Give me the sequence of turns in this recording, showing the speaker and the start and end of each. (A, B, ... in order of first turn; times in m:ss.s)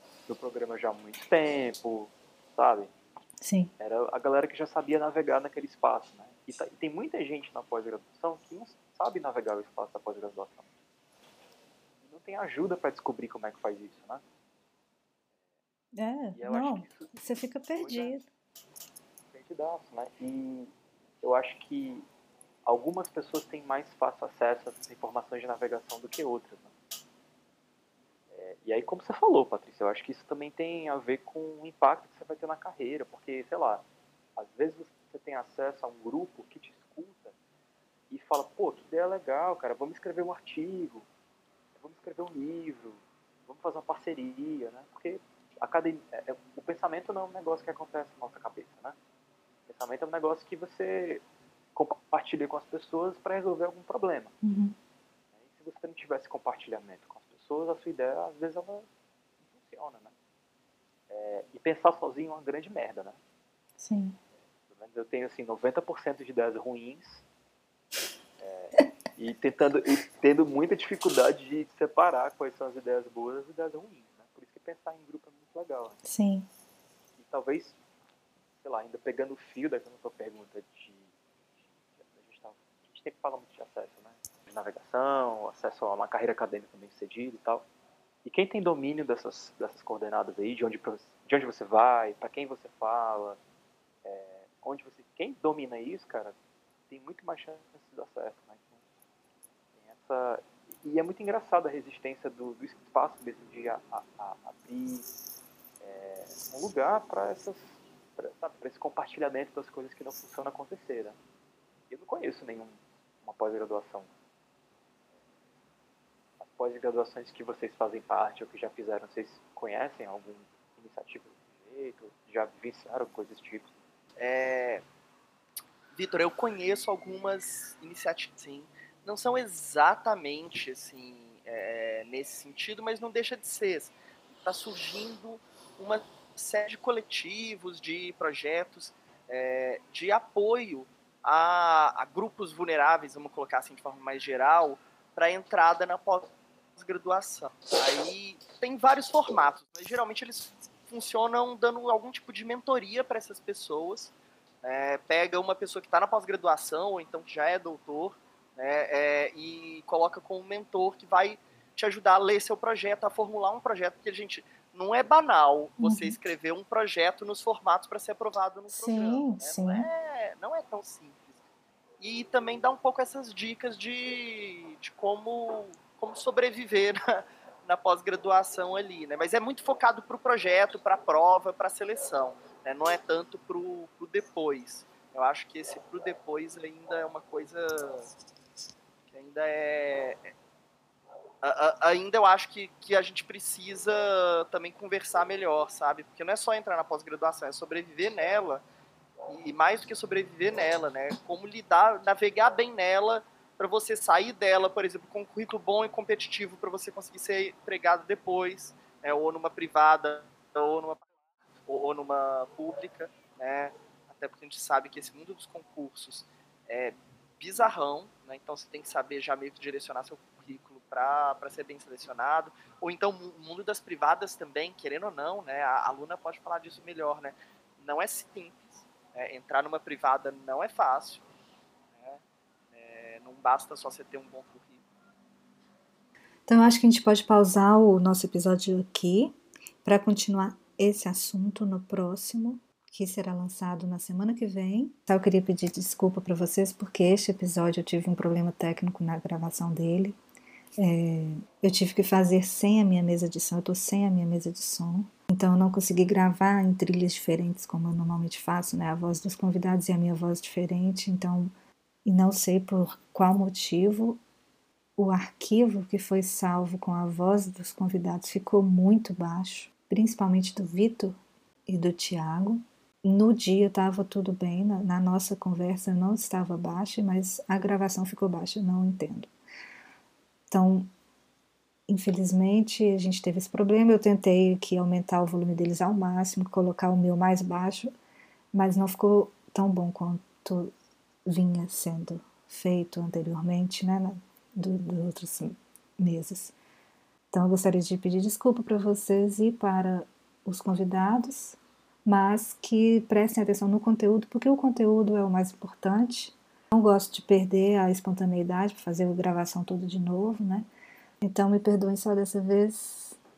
0:00.3-0:02.9 A
0:03.4-0:03.7 B
0:03.8-0:10.7 A
0:12.0-0:14.2 A
0:16.0-0:18.2 B
0:16.4-0:17.2 A
0:17.8-0:18.3 A
0:19.3-0:22.1 A
0:22.6-0:26.7 A
0:28.3-0:37.4 A
0:38.1-0:41.1 A
0:41.8-0:49.0 A
0:49.7-0:51.2 A
0:51.8-0:54.3 A
0:54.4-0:54.8 B
0:55.3-0:58.9 A
0:59.4-1:00.1 A
1:01.1-1:03.2 A
1:03.8-1:04.2 B
1:04.6-1:07.2 A
1:08.4-1:16.0 A
1:16.0-1:16.5 B
1:17.2-1:17.8 A
1:18.6-1:27.6 A
1:28.2-1:33.4 A
1:34.0-1:36.4 A
1:36.9-1:38.8 A
1:39.8-1:45.1 A
1:45.8-1:51.2 A
1:51.9-1:54.1 A
1:56.4-2:03.7 A
2:04.2-2:04.8 C
2:05.9-2:51.4 C
2:45.8-2:46.2 B
2:48.7-2:49.9 B
2:52.0-3:08.1 C
3:09.1-3:10.3 C
3:11.4-3:18.6 C
3:19.3-3:31.1 C
3:31.7-3:51.2 C
3:52.0-3:52.2 C
3:52.7-3:54.8 C
3:56.5-4:10.2 B
4:10.8-4:21.5 B
4:22.0-4:24.2 B
4:25.0-4:39.3 B
4:40.5-4:40.9 B
4:41.9-4:47.9 B
4:48.5-4:50.7 B
4:51.2-4:56.6 B
4:57.3-5:10.7 B
5:11.2-5:13.2 B